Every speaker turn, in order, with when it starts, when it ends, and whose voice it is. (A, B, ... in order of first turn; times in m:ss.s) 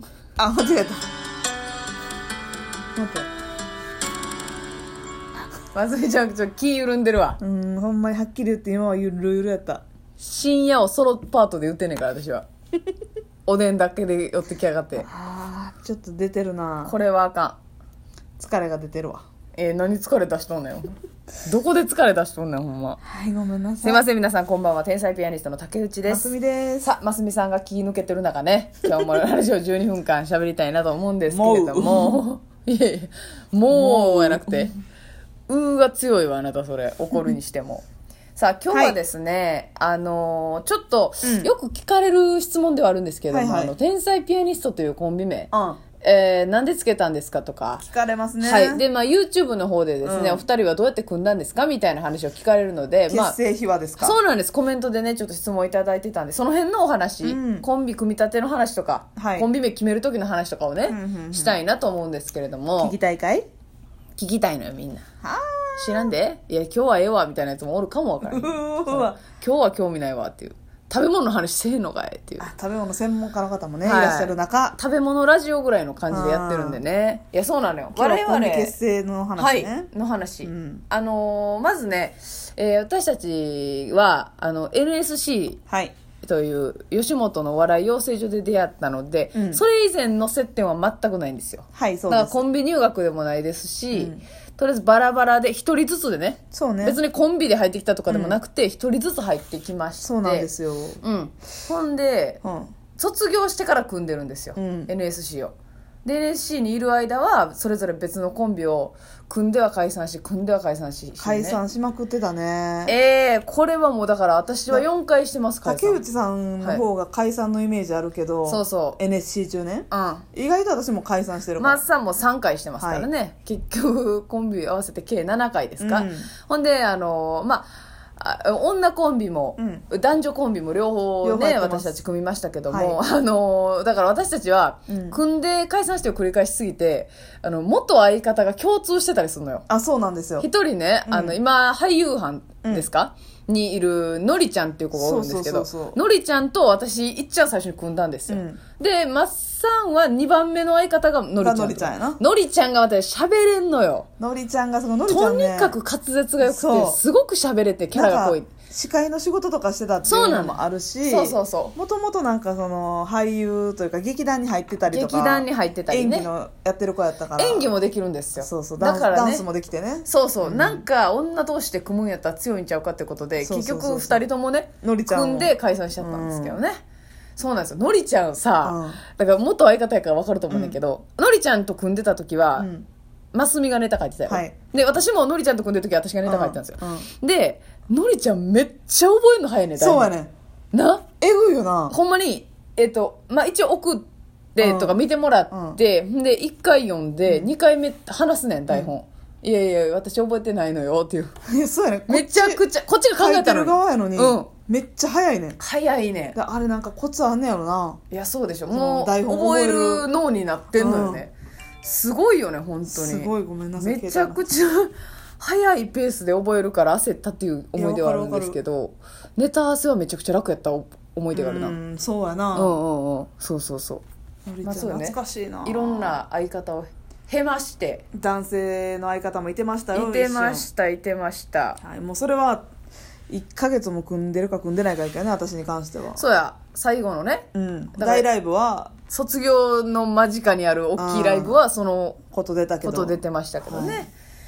0:00.4-0:01.0 A
0:03.0-0:03.3 A
0:05.7-0:07.4 B
0:07.4-0:09.8 A
0:10.2-0:12.4 B
0:13.4-0:15.1 B
0:15.0-0:16.9 A
0:16.8-0:17.6 B
0:18.4-0:19.2 A
0:19.6-0:23.0 B
0:23.0-0:24.0 A
0:23.8-0:26.3 B
0:26.0-0:26.9 A
0:26.8-0:34.7 B
0:31.3-0:32.2 A
0:33.7-0:34.8 A
0:35.5-0:37.8 B
0:38.4-0:47.8 B
0:38.7-0:39.0 A
0:41.2-0:41.5 A
0:43.3-0:43.7 A
0:45.5-0:45.8 A
0:47.8-0:48.8 A
0:48.4-0:53.4 B
0:50.0-0:50.4 A
0:53.1-0:54.2 A
0:54.0-1:02.9 B
0:57.2-0:57.7 A
0:59.2-0:59.5 A
1:00.9-1:01.6 A
1:02.8-1:03.5 A
1:04.2-1:05.0 B
1:05.2-1:06.1 A
1:05.8-1:12.5 B
1:08.2-1:09.2 A
1:12.4-1:14.8 A
1:13.8-1:18.7 B
1:16.1-1:16.8 A
1:17.9-1:19.9 A
1:19.4-1:25.6 B
1:20.4-1:20.8 A
1:25.7-1:26.0 A
1:26.2-1:40.5 B
1:29.3-1:29.6 A
1:31.7-1:32.4 A
1:33.9-1:34.2 A
1:36.5-1:37.0 A
1:38.1-1:38.4 A
1:40.0-1:41.0 A
1:41.0-1:42.4 B
1:42.4-1:42.7 A
1:43.0-1:51.6 B
1:44.6-1:44.9 A
1:51.2-1:52.9 A
1:52.9-1:56.0 B
1:55.6-2:01.8 A
1:58.4-1:59.0 B
1:59.9-2:00.2 B
2:01.6-2:19.6 B
2:02.8-2:03.1 A
2:05.8-2:06.3 A
2:09.6-2:09.8 A
2:11.2-2:11.9 A
2:12.7-2:13.0 A
2:14.9-2:15.2 A
2:19.7-2:20.5 A
2:20.4-2:34.1 B
2:21.1-2:21.4 A
2:24.9-2:26.0 A
2:28.3-2:28.6 A
2:31.4-2:32.2 A
2:34.2-2:35.8 A
2:35.1-2:38.5 B
2:36.4-2:37.0 A
2:37.9-2:47.7 A
2:40.0-2:41.7 B
2:44.9-2:46.3 B
2:47.4-2:49.4 B
2:48.4-2:50.8 A
2:50.0-2:56.8 B
2:53.4-2:54.2 A
2:54.8-2:56.6 A
2:57.4-3:02.7 B
2:58.6-2:59.0 A
3:00.5-3:00.8 A
3:02.6-3:02.9 A
3:03.3-3:10.1 B
3:04.3-3:04.6 A
3:06.2-3:07.1 A
3:09.8-3:10.3 A
3:10.7-3:11.0 B
3:11.2-3:12.0 A
3:11.9-3:21.3 B
3:14.6-3:15.8 A
3:21.4-3:22.6 A
3:22.1-3:24.5 B
3:23.2-3:25.6 A
3:25.6-3:26.4 B
3:26.3-3:28.0 A
3:28.1-3:41.8 B
3:28.7-3:30.1 A
3:30.7-3:31.2 A
3:32.9-3:34.4 A
3:37.8-3:38.6 A
3:41.3-3:42.7 A
3:42.5-3:44.0 B
3:44.4-3:46.2 A
3:44.6-3:48.0 B
3:48.1-3:50.7 A
3:49.9-3:51.8 B
3:51.8-3:52.7 A
3:53.3-3:56.2 A
3:56.2-3:58.3 B
3:57.5-3:58.9 A
3:59.1-4:02.2 B
4:01.0-4:01.6 A
4:02.3-4:04.1 A
4:02.8-4:04.1 B